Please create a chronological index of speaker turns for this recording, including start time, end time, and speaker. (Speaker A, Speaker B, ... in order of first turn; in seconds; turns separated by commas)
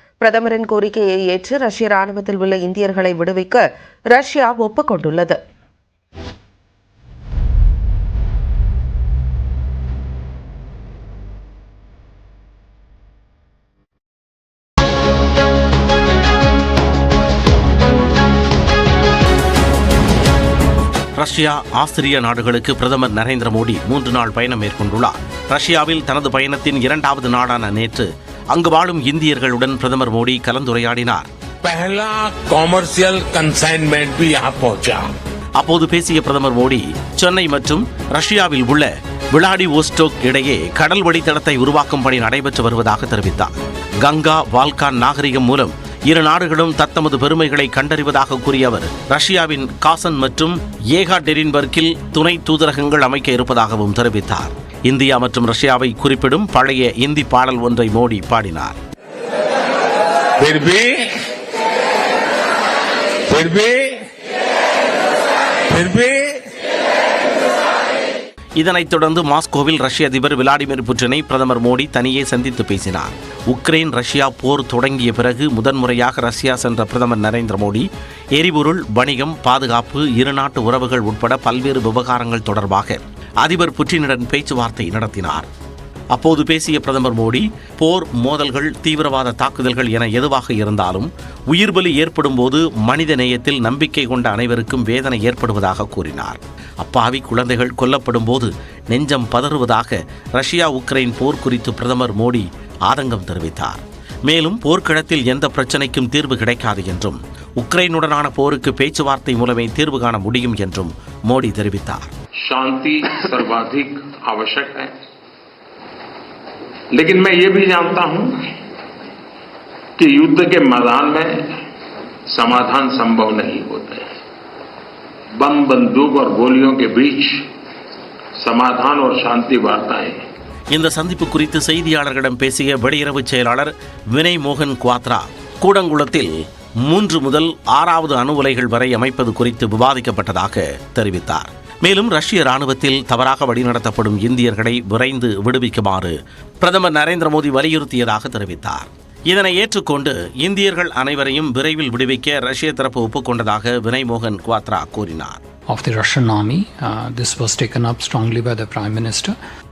Speaker A: 0.2-5.4, Speaker B: 21.2-31.3, Speaker C: 31.6-32.4, Speaker D: 31.9-35.0, Speaker B: 35.6-58.8, Speaker C: 60.4-61.1, Speaker C: 63.3-64.0, Speaker C: 65.7-66.3, Speaker B: 68.6-85.5, Speaker B: 86.1-112.1, Speaker C: 112.4-114.9, Speaker C: 116.9-118.3, Speaker C: 120.0-121.4, Speaker C: 122.3-124.1, Speaker C: 125.4-127.4, Speaker C: 128.4-130.2, Speaker B: 130.7-136.3, Speaker B: 136.8-155.4, Speaker E: 155.7-159.4